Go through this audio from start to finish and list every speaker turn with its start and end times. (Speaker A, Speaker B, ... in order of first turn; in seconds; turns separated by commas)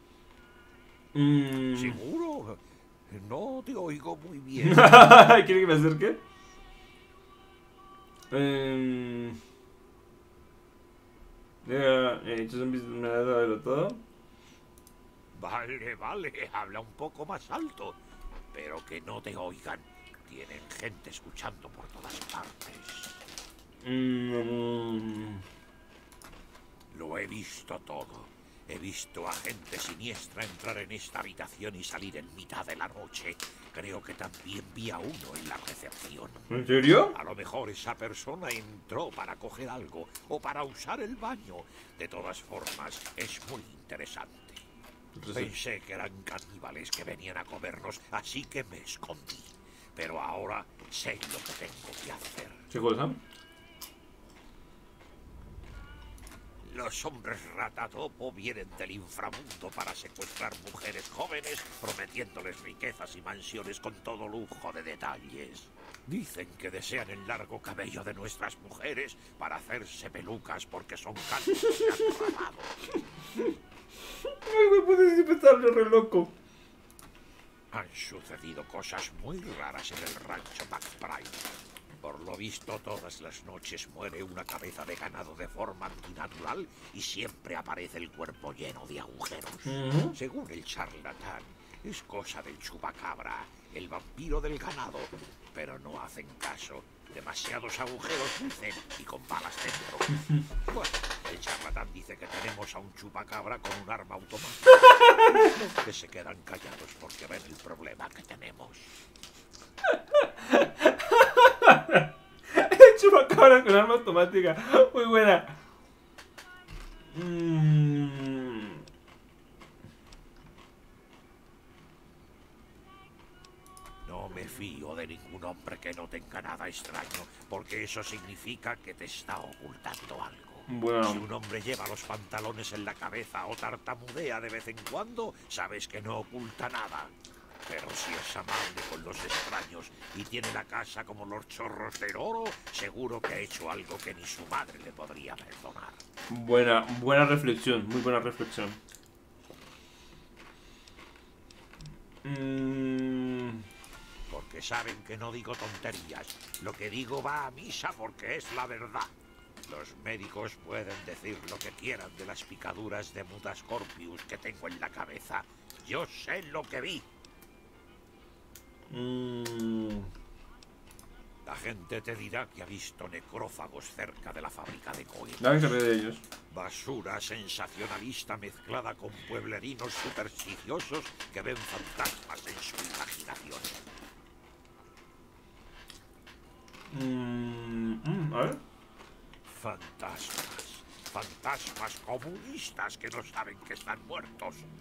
Speaker A: 1.1-2.0, Speaker B: 1.8-4.9, Speaker A: 4.6-6.2, Speaker A: 8.3-9.4, Speaker A: 11.6-14.0, Speaker B: 15.3-18.0, Speaker B: 18.5-23.2, Speaker A: 23.8-25.4, Speaker B: 26.9-44.6, Speaker A: 36.5-37.2, Speaker A: 45.2-45.5, Speaker B: 45.3-52.6, Speaker A: 52.7-53.2, Speaker B: 56.6-72.9, Speaker A: 74.3-76.3, Speaker B: 77.7-108.9, Speaker A: 89.7-90.2, Speaker A: 104.9-105.2, Speaker A: 110.2-115.6, Speaker A: 117.1-118.8, Speaker B: 124.1-137.1, Speaker A: 130.7-131.2, Speaker B: 137.7-146.0, Speaker A: 146.3-148.8, Speaker A: 152.2-153.6, Speaker B: 154.3-159.1, Speaker B: 159.7-167.1, Speaker A: 168.9-170.1, Speaker B: 171.4-175.7, Speaker A: 175.4-176.2, Speaker B: 176.5-183.8, Speaker A: 186.9-188.6, Speaker B: 189.5-194.7